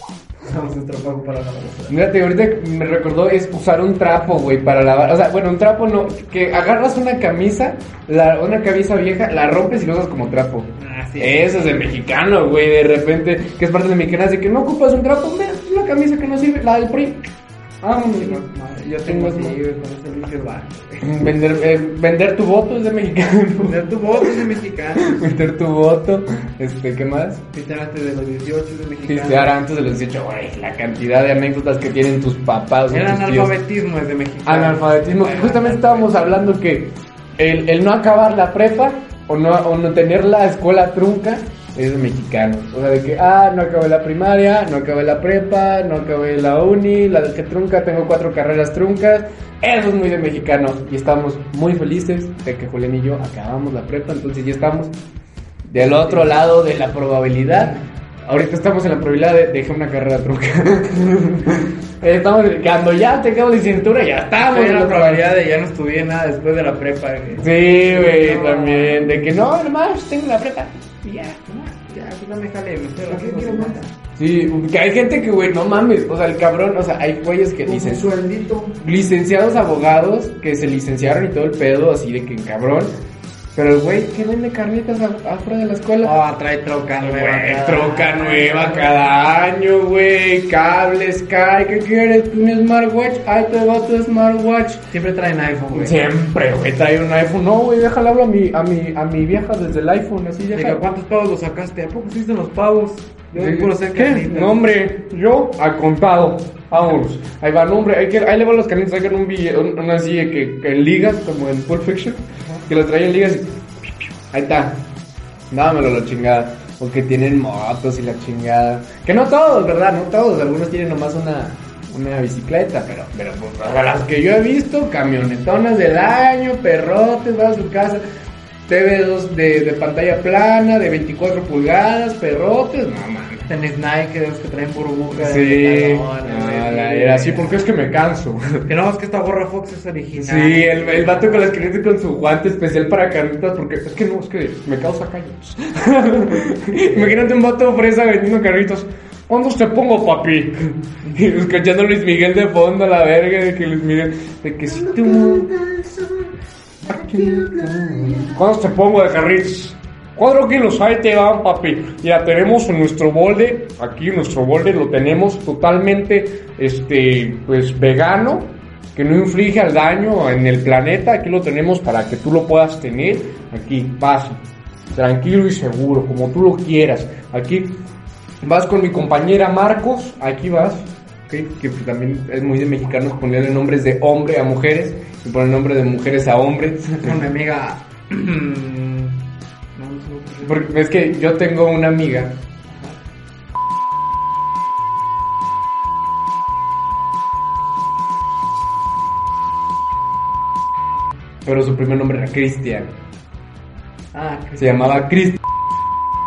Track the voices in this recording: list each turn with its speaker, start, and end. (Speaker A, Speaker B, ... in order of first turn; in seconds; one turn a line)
Speaker A: 0.4-2.0
Speaker B: 1.9-17.3
Speaker A: 10.8-11.9
Speaker B: 17.8-18.4
Speaker A: 18.0-21.1
Speaker B: 19.0-19.6
Speaker B: 21.0-24.3
Speaker A: 23.6-25.3
Speaker B: 25.0-27.4
Speaker A: 27.5-29.6
Speaker B: 29.1-33.5
Speaker A: 32.9-36.6
Speaker B: 34.5-54.9
Speaker B: 55.7-65.3
Speaker A: 55.8-56.4
Speaker A: 64.4-69.2
Speaker B: 67.4-71.4
Speaker A: 71.5-73.9
Speaker C: 73.1-73.8
Speaker B: 74.2-78.1
Speaker C: 77.6-78.8
Speaker B: 78.8-82.9
Speaker B: 83.5-86.2
Speaker A: 86.0-89.1
Speaker B: 87.0-94.8
Speaker A: 94.9-96.0
Speaker B: 95.7-100.8
Speaker A: 100.5-104.6
Speaker B: 103.3-113.5
Speaker B: 114.3-114.8
Speaker B: 115.5-128.0
Speaker B: 128.7-133.5
Speaker A: 133.5-137.6
Speaker B: 135.2-138.7
Speaker A: 138.7-141.5
Speaker B: 140.1-155.5
Speaker C: 154.7-158.4
Speaker B: 156.8-174.4
Speaker B: 174.9-177.8
Speaker B: 178.4-187.2
Speaker A: 187.0-190.7
Speaker B: 190.4-192.4
Speaker A: 192.7-193.0
Speaker B: 201.4-202.9
Speaker A: 204.1-205.0
Speaker B: 204.6-205.4